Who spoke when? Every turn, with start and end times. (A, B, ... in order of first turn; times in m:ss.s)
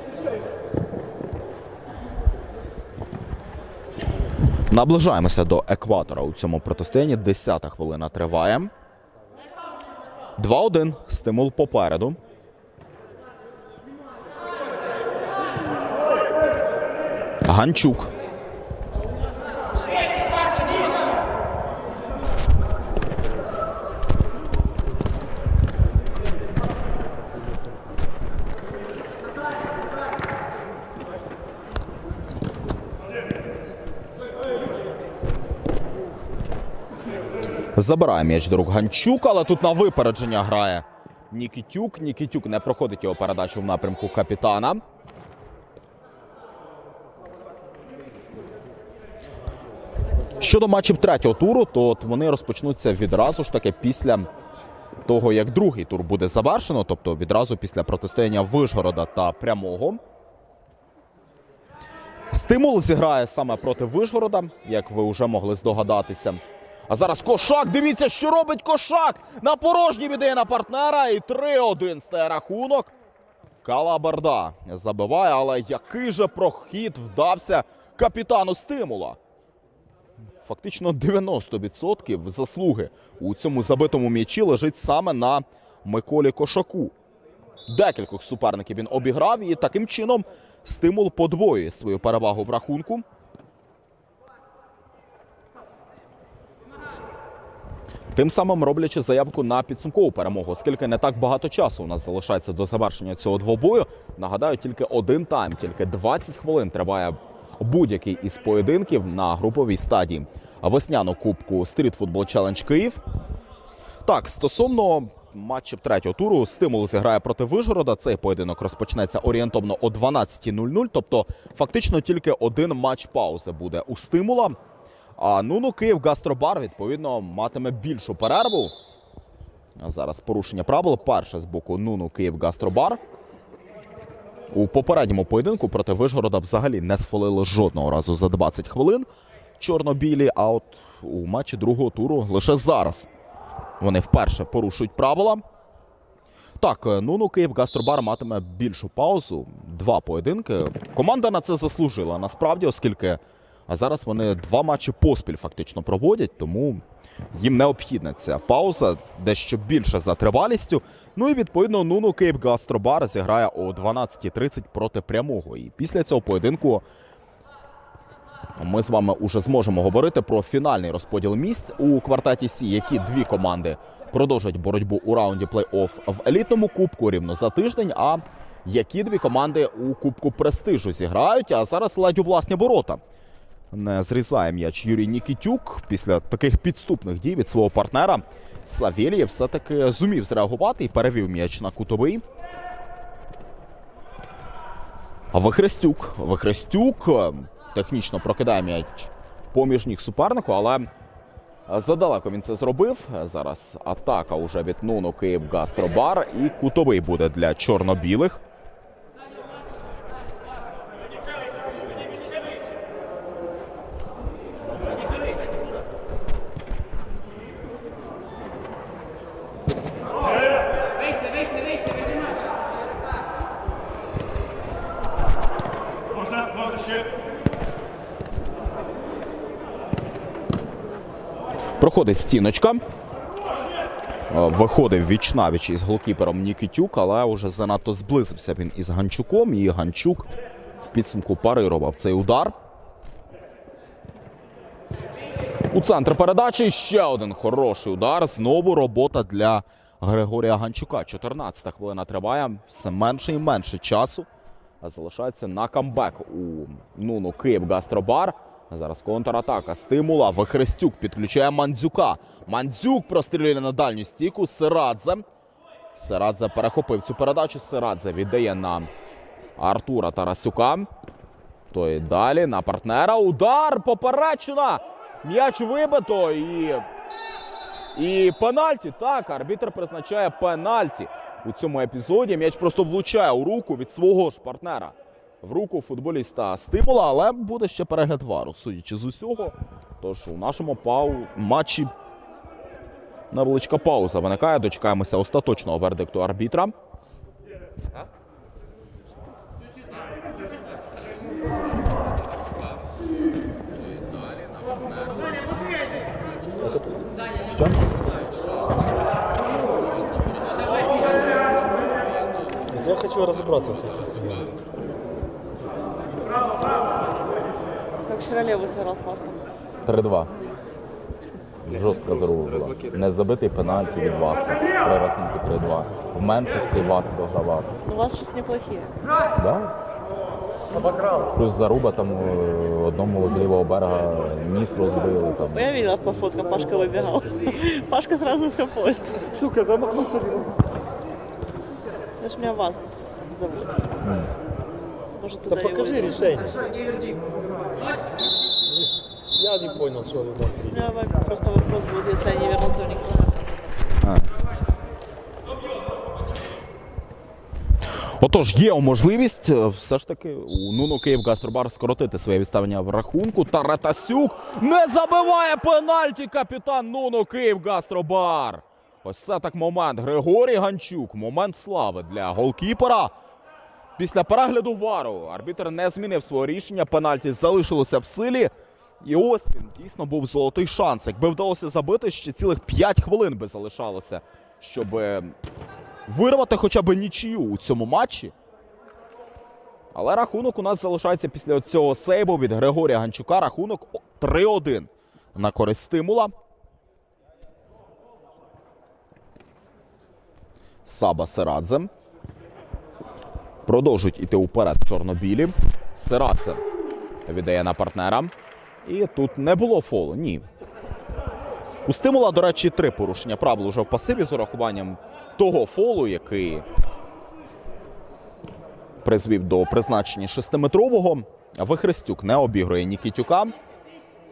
0:04.7-0:08.7 A
0:10.4-0:12.2 A
0:17.4-0:18.1 A
0:37.8-0:44.8 A
0:50.4-0:54.3 A
0:55.1-1:00.0 A
1:02.3-1:12.9 A
1:13.6-1:19.2 A
1:20.4-1:26.9 A
1:27.7-1:33.0 A
1:38.1-1:53.0 A
1:54.0-2:04.6 A
2:05.2-2:08.7 A
2:09.8-2:13.0 A
2:14.5-2:19.1 A
2:19.6-2:23.1 A
2:23.8-2:25.4 A
2:26.6-2:46.8 A
2:48.6-3:03.0 A
3:03.7-3:12.2 A
3:15.3-3:20.9 A
3:21.7-3:28.4 A
3:51.8-3:52.8 A
3:54.3-4:00.3 A
4:00.8-4:02.5 A
4:05.7-4:14.3 A
4:14.8-4:25.2 A
4:26.0-4:28.9 A
4:29.6-4:30.9 A
4:31.7-4:36.8 A
4:38.0-4:51.9 A
4:53.3-4:56.7 A
5:06.6-5:06.9 B
5:07.5-5:07.8 A
5:12.7-5:14.5 B
5:18.0-5:19.4 C
5:19.8-5:20.3 A
5:21.6-5:27.7 A
5:27.8-5:28.9 C
5:29.4-5:29.7 A
5:30.7-5:31.3 B
5:31.3-5:35.7 A
5:35.4-5:39.4 C
5:39.4-5:40.5 B
5:42.2-5:43.8 C
5:45.2-5:46.2 C
5:45.5-5:46.6 B
5:49.3-5:50.8 B
5:50.7-5:53.5 C
5:58.2-6:13.1 A
6:14.0-6:18.5 A
6:19.0-6:25.4 A
6:26.1-6:28.3 A
6:29.9-6:36.3 A
6:40.8-6:41.9 A
6:43.7-6:46.6 A
6:47.3-6:48.3 A
6:48.8-6:50.5 A
6:51.9-6:56.7 A
6:59.0-7:03.6 A